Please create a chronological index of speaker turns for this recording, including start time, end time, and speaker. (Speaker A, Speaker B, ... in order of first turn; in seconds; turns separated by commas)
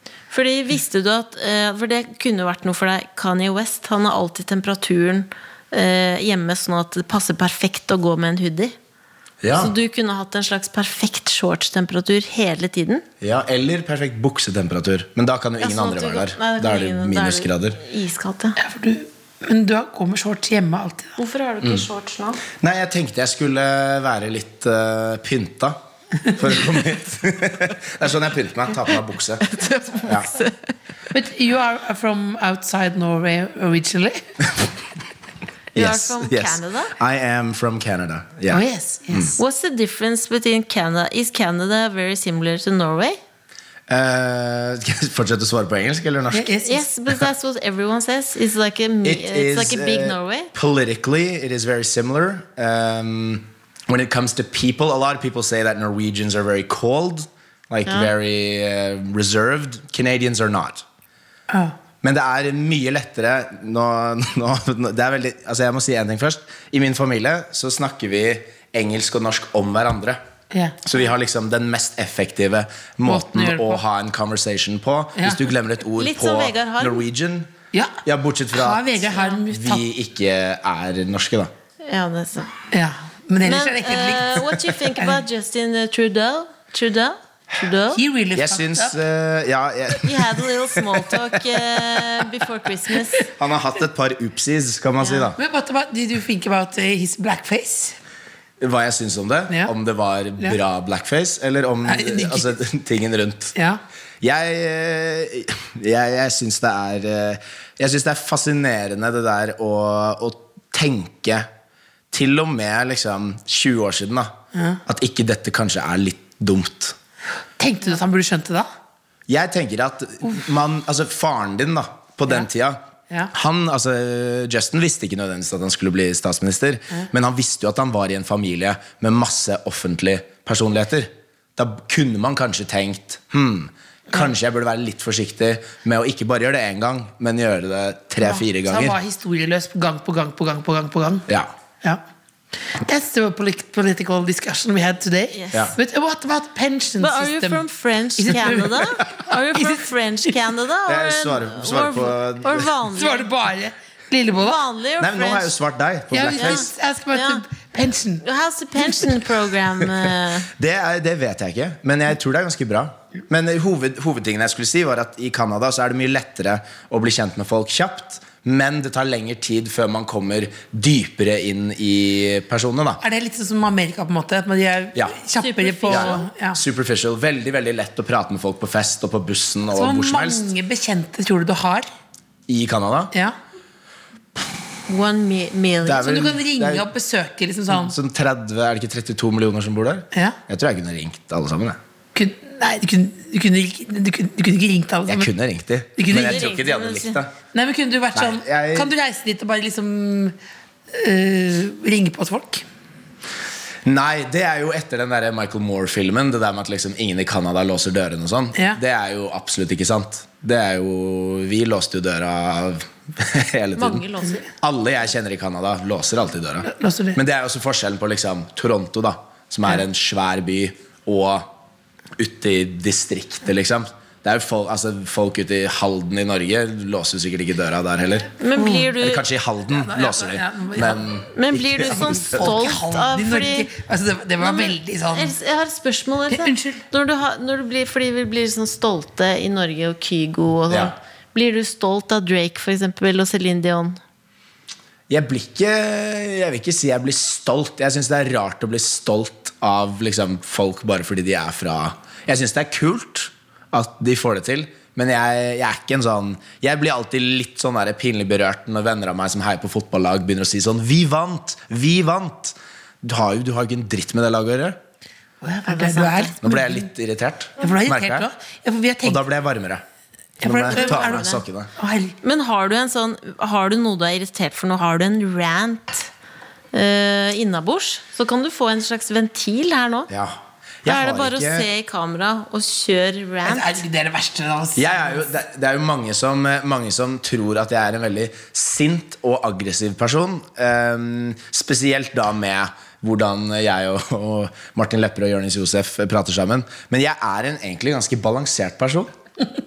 Speaker A: 0.3-8.8, Speaker B: 9.4-9.7, Speaker A: 9.5-13.1, Speaker B: 13.2-17.8, Speaker A: 15.6-18.6, Speaker C: 18.6-21.2, Speaker A: 21.2-22.4, Speaker B: 22.5-25.8, Speaker B: 26.3-29.4, Speaker A: 29.4-30.6, Speaker C: 31.1-34.3, Speaker A: 35.8-36.9, Speaker B: 35.8-39.3, Speaker C: 38.5-39.4, Speaker A: 39.4-43.2, Speaker B: 43.9-46.5, Speaker C: 46.3-46.9, Speaker A: 46.6-50.5, Speaker B: 49.0-60.8, Speaker C: 61.5-61.8, Speaker B: 62.0-70.2, Speaker C: 70.5-70.8, Speaker B: 70.8-77.5, Speaker C: 73.0-73.8, Speaker C: 75.2-75.5, Speaker A: 76.0-77.0, Speaker C: 77.7-78.0, Speaker B: 78.0-81.5, Speaker C: 78.5-79.8, Speaker A: 81.8-82.5, Speaker C: 82.7-84.4, Speaker A: 83.4-88.0, Speaker C: 87.9-89.0, Speaker B: 88.4-91.1, Speaker A: 90.0-93.2, Speaker B: 93.3-95.4, Speaker A: 95.0-95.3, Speaker C: 95.4-98.0, Speaker B: 98.6-103.5, Speaker C: 101.8-102.5, Speaker C: 103.5-103.8, Speaker B: 104.2-111.5, Speaker B: 112.1-114.3, Speaker C: 114.5-114.8, Speaker B: 114.9-117.0, Speaker C: 117.6-118.7, Speaker B: 119.3-122.8, Speaker B: 123.3-139.0, Speaker C: 138.2-141.3, Speaker C: 142.7-147.6, Speaker A: 145.3-145.7, Speaker A: 147.0-153.3, Speaker C: 148.2-149.0, Speaker C: 149.5-149.8, Speaker B: 150.9-152.7, Speaker C: 153.0-154.6, Speaker A: 154.4-155.5, Speaker B: 155.0-156.7, Speaker C: 156.1-158.2, Speaker A: 156.4-157.4, Speaker A: 158.2-160.5, Speaker B: 160.5-173.0, Speaker C: 173.0-176.6, Speaker A: 175.4-176.2, Speaker B: 175.9-180.5, Speaker C: 179.7-181.9, Speaker B: 182.5-183.1, Speaker A: 184.9-186.1, Speaker B: 185.9-186.9, Speaker C: 186.0-187.9, Speaker B: 187.7-191.8, Speaker C: 190.1-190.4, Speaker C: 192.1-195.3, Speaker B: 195.1-197.3, Speaker C: 196.0-196.5, Speaker A: 196.1-197.2, Speaker C: 197.5-200.4, Speaker B: 198.2-198.9, Speaker C: 200.9-202.7, Speaker B: 203.8-214.1, Speaker C: 208.6-208.8, Speaker A: 213.8-214.5, Speaker B: 214.6-221.5, Speaker C: 216.7-217.2, Speaker B: 222.2-228.4, Speaker A: 228.4-229.2, Speaker C: 228.6-228.9, Speaker B: 228.9-232.7, Speaker C: 229.7-231.1, Speaker A: 231.3-233.7, Speaker C: 231.9-235.3, Speaker A: 234.4-244.0, Speaker C: 236.3-236.8, Speaker B: 245.1-264.8, Speaker C: 265.4-266.9, Speaker A: 265.7-266.3, Speaker B: 266.4-268.3, Speaker C: 267.6-269.2, Speaker B: 269.0-269.8, Speaker C: 270.4-272.2, Speaker B: 270.4-271.7, Speaker A: 270.7-271.4, Speaker A: 272.2-276.1, Speaker A: 276.7-280.1, Speaker B: 280.1-281.7, Speaker A: 280.9-283.8, Speaker C: 283.4-285.3, Speaker B: 284.8-299.1